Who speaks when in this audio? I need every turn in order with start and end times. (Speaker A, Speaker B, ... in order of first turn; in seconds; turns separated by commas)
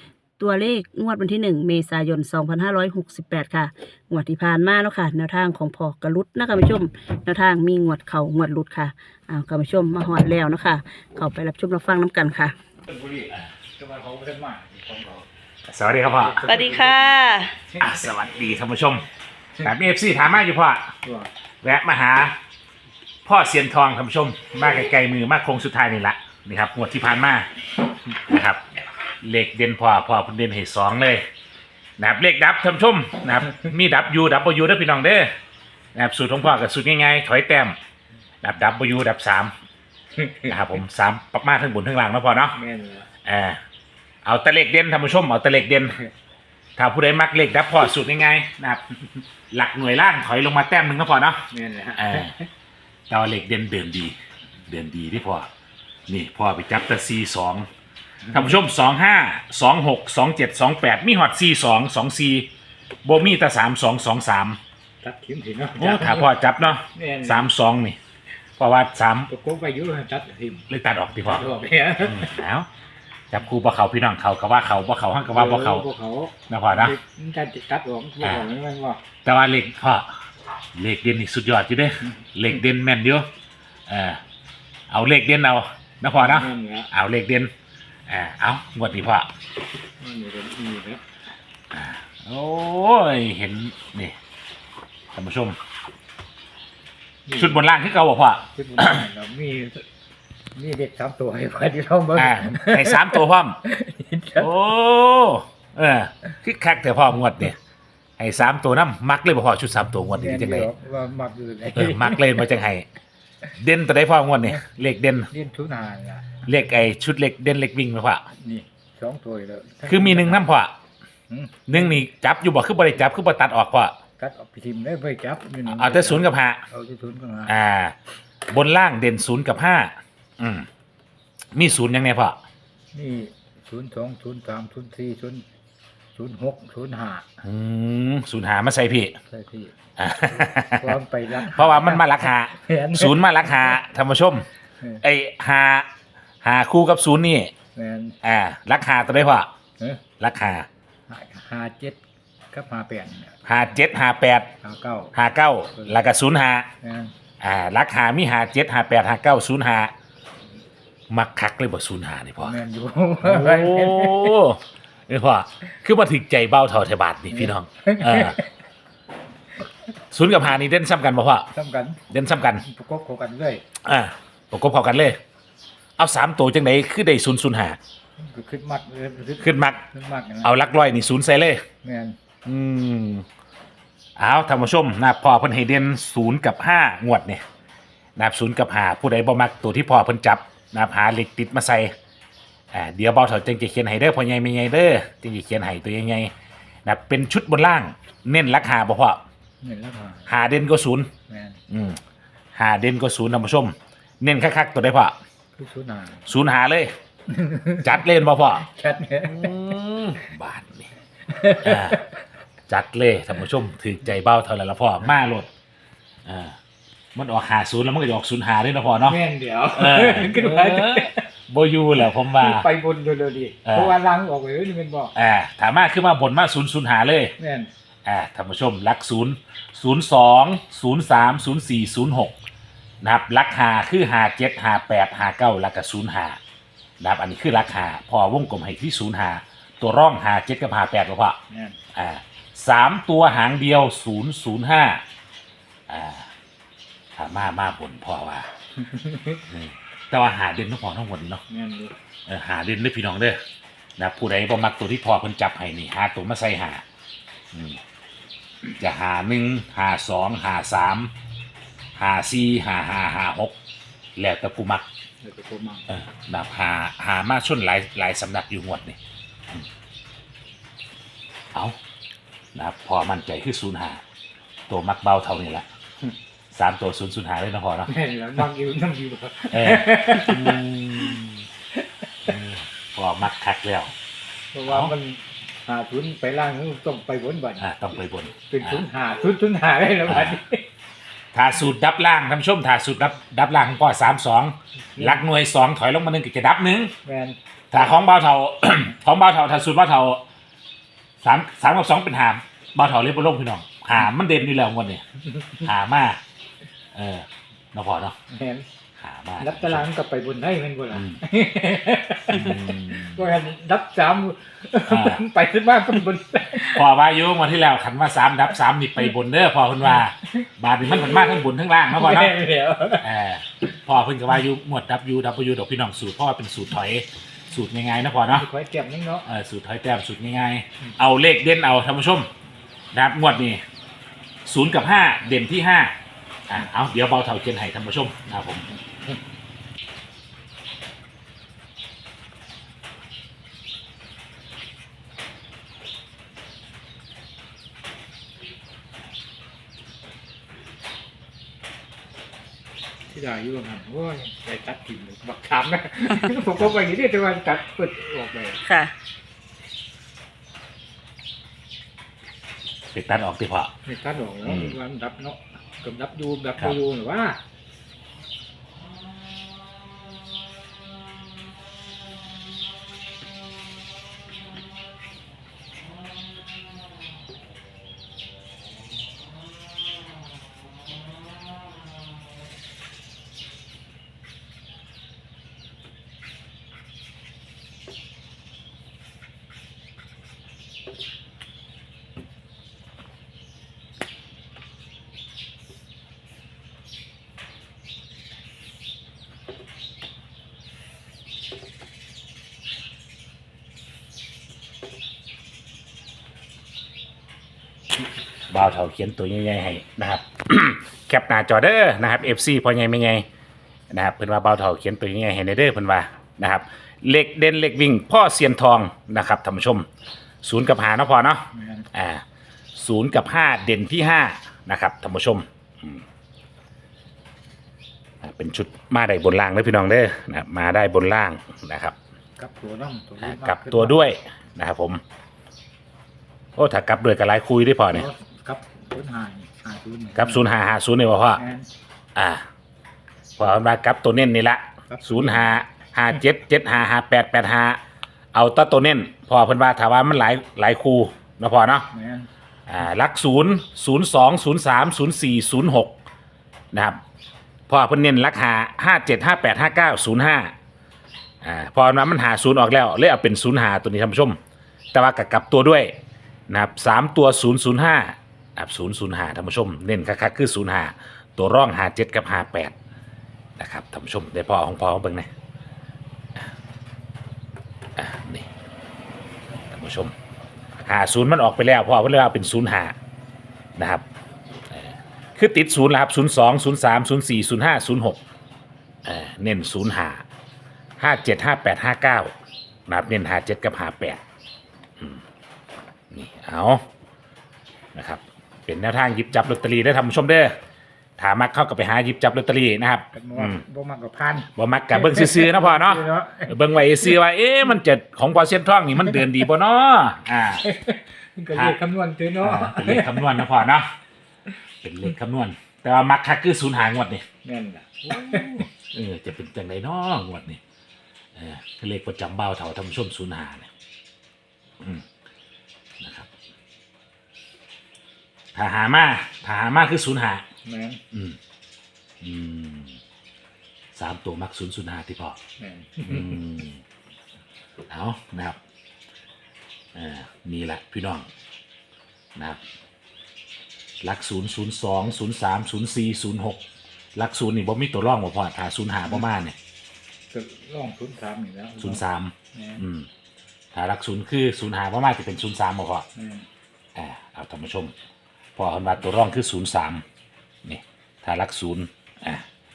Speaker A: 0.4-12.6, Speaker B: 12.9-15.3, Speaker C: 15.7-16.5, Speaker B: 16.1-17.2, Speaker A: 16.4-17.5, Speaker C: 17.8-19.1, Speaker C: 19.6-20.9, Speaker C: 21.6-22.3, Speaker C: 23.2-27.5, Speaker C: 28.3-28.6, Speaker C: 29.2-31.2, Speaker C: 32.0-35.3, Speaker C: 35.9-37.8, Speaker C: 38.4-39.5, Speaker B: 40.2-40.6, Speaker C: 40.5-42.6, Speaker B: 42.5-43.1, Speaker C: 43.2-43.6, Speaker C: 44.2-46.0, Speaker C: 46.8-48.8, Speaker C: 49.5-51.4, Speaker B: 51.5-52.5, Speaker C: 52.0-52.3, Speaker C: 53.1-54.2, Speaker C: 54.7-55.5, Speaker C: 56.1-57.7, Speaker B: 58.3-58.5, Speaker C: 58.3-62.5, Speaker C: 63.0-64.6, Speaker B: 65.0-67.5, Speaker C: 65.8-68.0, Speaker C: 68.6-69.3, Speaker B: 69.3-72.3, Speaker C: 70.7-71.5, Speaker C: 72.0-72.7, Speaker C: 73.3-75.9, Speaker B: 75.3-79.0, Speaker C: 76.5-77.0, Speaker C: 78.2-78.5, Speaker C: 79.2-80.1, Speaker C: 80.8-83.3, Speaker C: 83.9-84.2, Speaker C: 84.9-87.5, Speaker B: 86.2-86.9, Speaker C: 88.1-89.3, Speaker B: 90.0-91.0, Speaker C: 91.7-94.2, Speaker C: 95.1-95.6, Speaker B: 97.3-97.7, Speaker C: 97.3-99.0, Speaker B: 98.5-99.8, Speaker B: 100.5-104.5, Speaker C: 102.2-103.6, Speaker C: 104.4-107.6, Speaker C: 108.2-110.7, Speaker B: 110.1-112.5, Speaker C: 111.7-112.9, Speaker C: 113.5-115.3, Speaker B: 115.3-116.4, Speaker C: 116.5-118.2, Speaker B: 118.4-120.5, Speaker C: 119.9-120.7, Speaker B: 121.3-122.0, Speaker C: 121.7-123.9, Speaker B: 124.2-127.6, Speaker C: 125.7-126.6, Speaker C: 127.5-128.0, Speaker C: 128.5-130.7, Speaker C: 131.6-132.4, Speaker B: 132.9-135.4, Speaker B: 136.2-137.3, Speaker C: 137.4-139.2, Speaker B: 139.3-139.7, Speaker C: 140.0-144.5, Speaker B: 140.4-143.2, Speaker C: 145.0-145.9, Speaker C: 146.4-147.5, Speaker B: 147.8-148.2, Speaker C: 148.2-149.5, Speaker C: 150.2-150.7, Speaker B: 151.1-152.0, Speaker B: 152.5-153.4, Speaker C: 153.4-154.5, Speaker B: 154.6-155.1, Speaker C: 155.1-156.7, Speaker B: 155.8-156.0, Speaker B: 156.8-157.1, Speaker C: 157.4-159.9, Speaker C: 161.1-162.6, Speaker B: 162.4-164.4, Speaker C: 163.2-168.4, Speaker B: 167.3-168.5, Speaker C: 170.1-171.5, Speaker B: 171.5-172.0, Speaker C: 172.1-172.7, Speaker B: 172.6-173.6, Speaker C: 173.8-175.2, Speaker C: 176.0-177.8, Speaker B: 178.2-180.6, Speaker C: 179.4-179.8, Speaker C: 180.4-181.6, Speaker B: 181.8-182.2, Speaker C: 182.4-183.2, Speaker C: 184.2-187.4, Speaker C: 188.2-191.9, Speaker C: 192.7-196.3, Speaker C: 196.8-199.2, Speaker B: 199.6-200.3, Speaker C: 200.3-201.1, Speaker B: 201.3-201.6, Speaker C: 201.7-202.0, Speaker C: 202.6-205.2, Speaker B: 205.6-206.3, Speaker C: 206.3-206.9, Speaker B: 207.3-208.0, Speaker C: 207.8-208.6, Speaker B: 208.6-209.6, Speaker C: 209.2-210.9, Speaker B: 211.3-212.0, Speaker C: 211.6-212.0, Speaker C: 212.7-215.5, Speaker C: 216.2-216.6, Speaker C: 217.2-219.2, Speaker B: 219.0-221.3, Speaker C: 219.8-222.7, Speaker B: 222.0-225.1, Speaker C: 223.7-224.0, Speaker C: 225.2-227.3, Speaker B: 227.4-227.7, Speaker C: 228.1-232.4, Speaker C: 233.0-236.4, Speaker C: 237.0-241.4, Speaker B: 241.5-241.8, Speaker C: 241.9-245.0, Speaker C: 245.9-246.3, Speaker C: 247.2-248.5, Speaker B: 248.8-249.5, Speaker C: 249.5-251.4, Speaker B: 251.5-251.9, Speaker C: 252.3-253.4, Speaker C: 254.0-256.8, Speaker C: 257.5-257.8, Speaker C: 258.7-261.1, Speaker C: 262.0-263.6, Speaker C: 264.2-264.9, Speaker B: 265.2-265.9, Speaker C: 265.9-269.0, Speaker C: 272.6-274.0, Speaker C: 274.7-275.7, Speaker C: 276.5-277.9, Speaker B: 277.9-281.1, Speaker C: 279.5-281.4, Speaker C: 282.3-283.9, Speaker B: 284.5-287.7, Speaker C: 284.7-284.9, Speaker C: 287.6-288.9, Speaker B: 288.5-290.6, Speaker C: 290.1-290.4, Speaker C: 291.3-296.9, Speaker B: 294.9-295.2, Speaker B: 297.0-297.4, Speaker C: 297.7-300.2, Speaker C: 301.2-305.0, Speaker C: 305.6-306.2, Speaker C: 306.9-308.2, Speaker B: 308.3-308.7, Speaker C: 309.0-309.9, Speaker B: 309.4-316.9, Speaker C: 310.9-311.2, Speaker C: 312.3-313.3, Speaker C: 314.9-315.2, Speaker C: 316.6-322.4, Speaker B: 320.8-323.1, Speaker C: 323.0-328.5, Speaker B: 328.3-329.3, Speaker C: 329.3-332.3, Speaker C: 332.9-333.6, Speaker C: 334.4-335.9, Speaker C: 336.5-338.7, Speaker B: 353.1-358.6, Speaker A: 358.6-358.9, Speaker C: 362.9-363.7, Speaker B: 363.9-367.4, Speaker C: 364.5-364.7, Speaker C: 408.5-413.3, Speaker C: 413.9-419.9, Speaker C: 420.4-422.2, Speaker B: 421.5-421.9, Speaker C: 422.8-426.1, Speaker C: 428.2-431.9, Speaker B: 432.4-434.1, Speaker C: 433.2-435.0, Speaker C: 436.6-438.1, Speaker B: 437.9-440.4, Speaker C: 440.1-441.4, Speaker B: 441.4-441.7, Speaker C: 442.2-442.4, Speaker C: 443.4-447.8, Speaker B: 444.9-445.6, Speaker C: 448.3-451.9, Speaker B: 451.9-452.3, Speaker C: 452.7-456.0, Speaker C: 456.7-457.0, Speaker C: 457.7-460.5, Speaker C: 461.4-464.4, Speaker C: 464.9-465.9, Speaker C: 466.5-472.7, Speaker C: 473.6-475.3, Speaker C: 478.0-478.5, Speaker C: 479.7-480.1, Speaker C: 480.9-482.9, Speaker C: 483.8-484.0, Speaker C: 484.7-488.2, Speaker C: 489.1-490.2, Speaker C: 491.0-492.3, Speaker C: 492.9-494.2, Speaker C: 496.1-496.9, Speaker C: 497.9-500.6, Speaker C: 501.2-503.6, Speaker B: 503.1-507.2, Speaker C: 504.6-510.6, Speaker B: 510.6-513.4, Speaker C: 512.4-513.9, Speaker C: 514.8-517.2, Speaker B: 517.4-518.7, Speaker C: 518.1-520.6, Speaker C: 521.4-523.7, Speaker C: 526.0-526.3, Speaker C: 528.5-530.5, Speaker B: 530.6-531.0, Speaker C: 531.1-531.4, Speaker C: 532.2-533.0, Speaker C: 533.9-535.4, Speaker B: 535.6-536.4, Speaker C: 536.0-536.8, Speaker C: 537.9-538.6, Speaker C: 540.0-541.3, Speaker C: 544.0-546.6, Speaker C: 547.2-549.5, Speaker B: 550.3-552.8, Speaker C: 551.8-553.1, Speaker C: 553.7-556.0, Speaker B: 556.1-556.5, Speaker C: 557.0-557.9, Speaker C: 558.6-560.0, Speaker C: 560.6-562.5